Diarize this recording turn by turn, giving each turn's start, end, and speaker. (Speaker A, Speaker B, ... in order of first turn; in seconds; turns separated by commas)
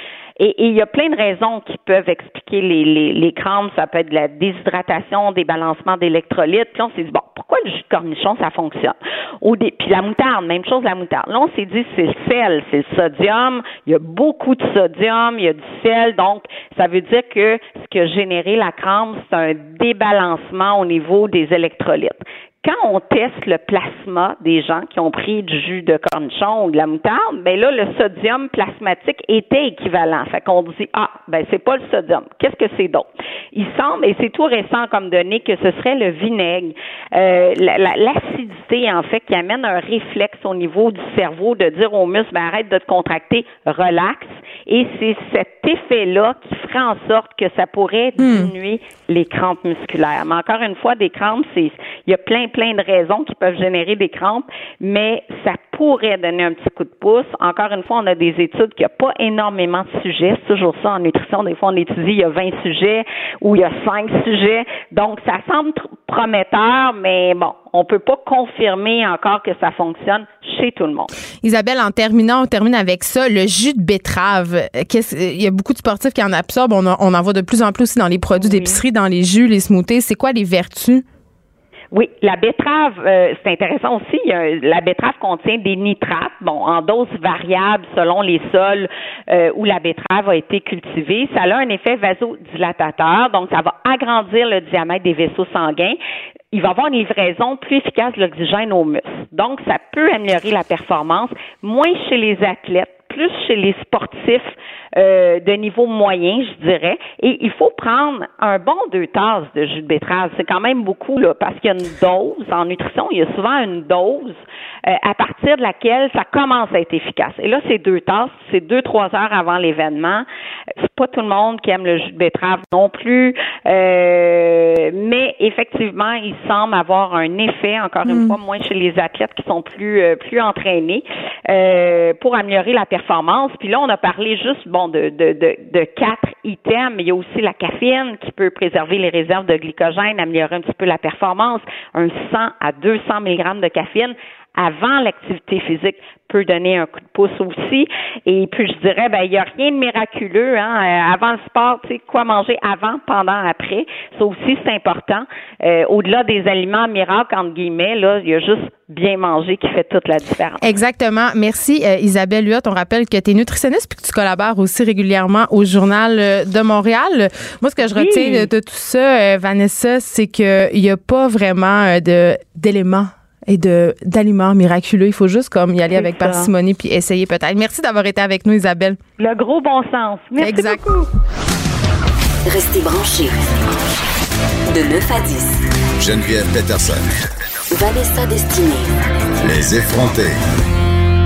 Speaker A: 0.4-71.1, Speaker B: 48.2-48.5, Speaker B: 71.4-81.0, Speaker A: 78.4-78.8, Speaker A: 81.9-96.0, Speaker A: 96.5-120.3, Speaker A: 120.8-160.7, Speaker B: 128.1-128.4, Speaker B: 160.6-179.0, Speaker A: 167.9-168.5, Speaker A: 175.9-176.5, Speaker A: 179.2-181.1, Speaker B: 180.4-180.8, Speaker C: 182.5-183.4, Speaker C: 184.7-185.6, Speaker D: 186.0-187.1, Speaker C: 187.7-188.9, Speaker D: 189.4-190.3